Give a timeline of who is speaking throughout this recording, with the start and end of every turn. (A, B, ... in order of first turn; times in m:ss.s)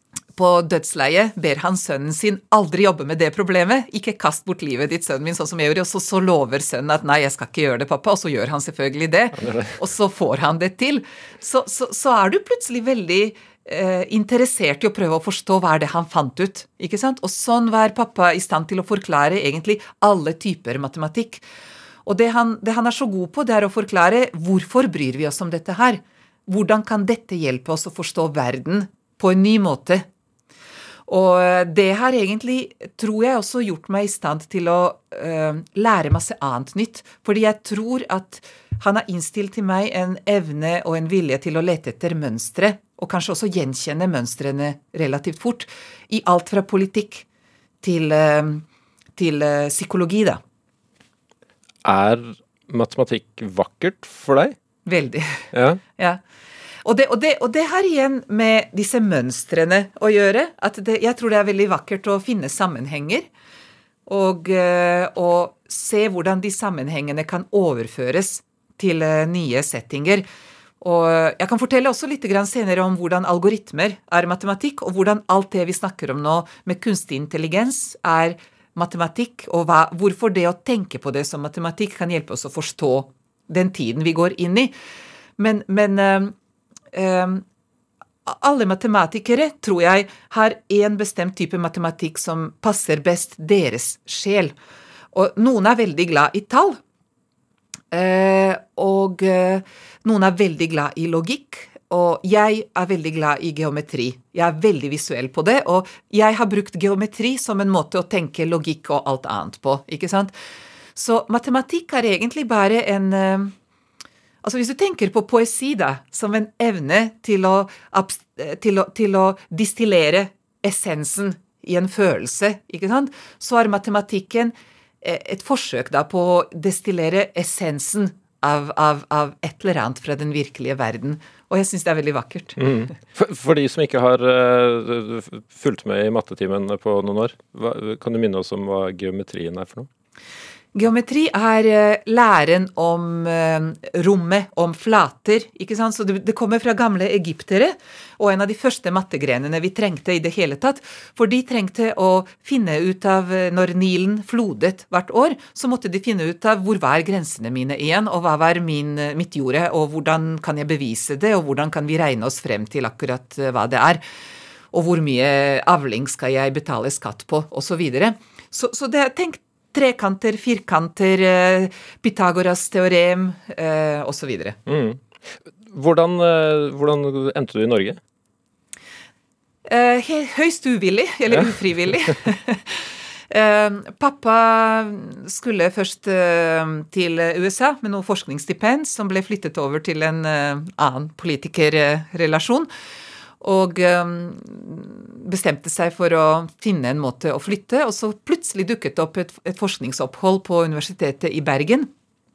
0:00.4-0:21.4 A
0:09.4-0:09.7 B
0:22.0-0:30.0 A
0:31.1-0:47.2 A
0:47.8-0:48.6 A
0:49.2-0:50.4 A
0:51.8-0:54.6 B
0:54.8-0:56.2 A
0:55.5-0:55.8 B
0:56.8-1:03.3 A
1:04.0-1:10.2 A
1:10.8-1:24.7 A
1:25.4-1:26.3 A
1:26.9-1:27.4 A
1:28.2-1:34.5 A
1:35.1-1:36.8 A
1:37.9-1:50.3 A
1:51.0-1:53.5 A
1:54.4-2:12.9 A
2:12.6-2:19.9 B
2:20.7-2:44.0 A
2:44.7-2:54.6 A
2:54.6-2:55.0 B
2:55.7-2:58.0 B
2:59.6-3:12.7 A
3:13.4-3:21.9 A